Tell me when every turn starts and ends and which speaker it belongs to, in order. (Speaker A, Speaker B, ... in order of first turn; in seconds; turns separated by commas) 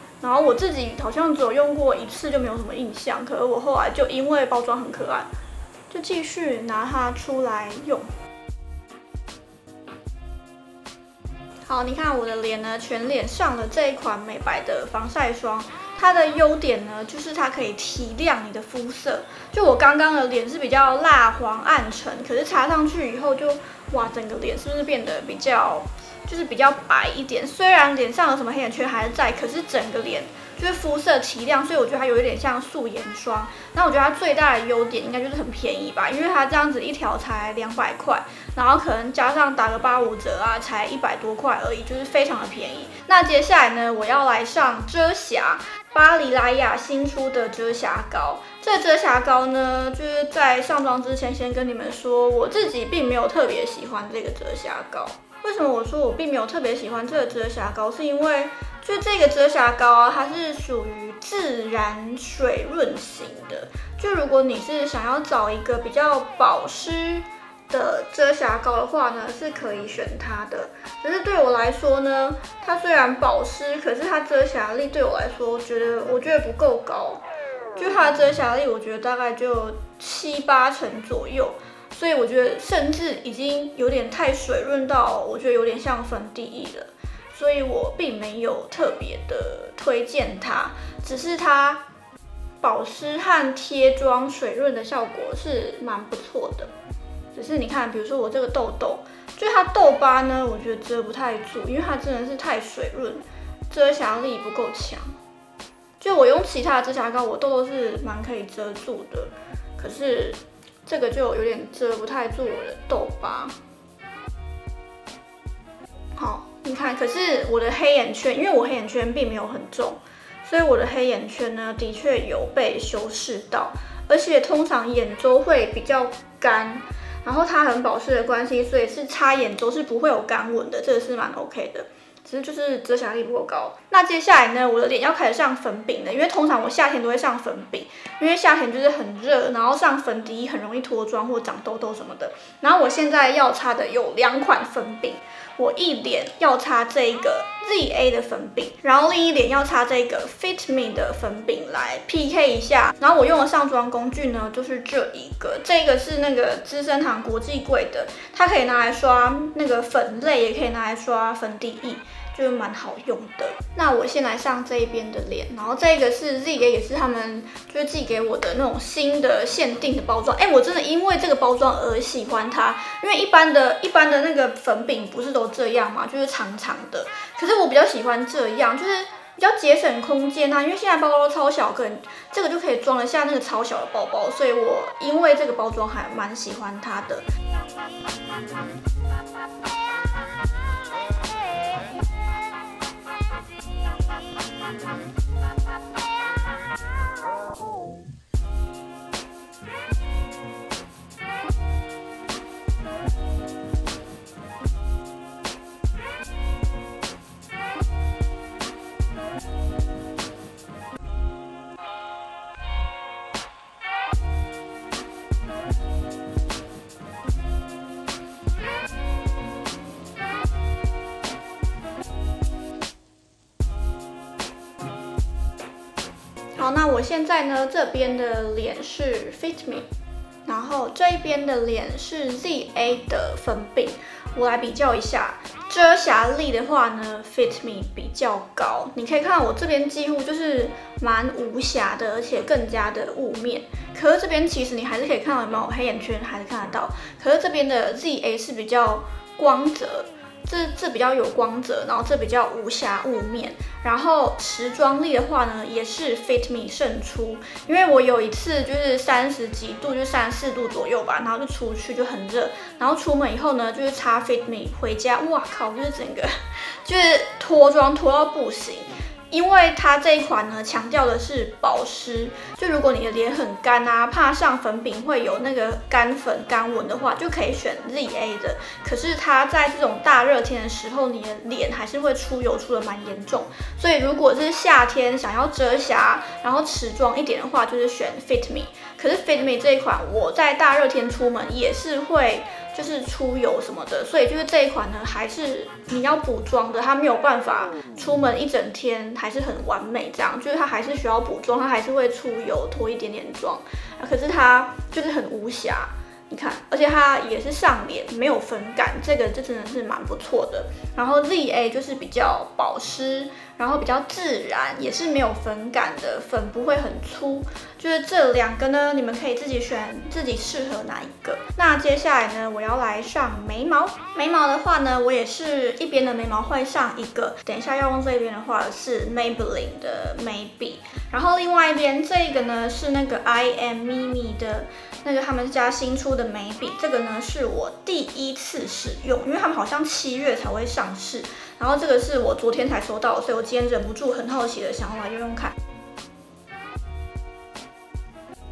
Speaker A: 0.2-5.3, Speaker A: 5.9-8.1, Speaker A: 11.7-77.2, Speaker A: 77.8-91.8, Speaker A: 92.6-96.7, Speaker A: 97.3-105.1, Speaker A: 106.0-113.5, Speaker A: 116.2-187.2, Speaker A: 226.6-229.9, Speaker A: 230.4-266.3, Speaker A: 266.8-345.5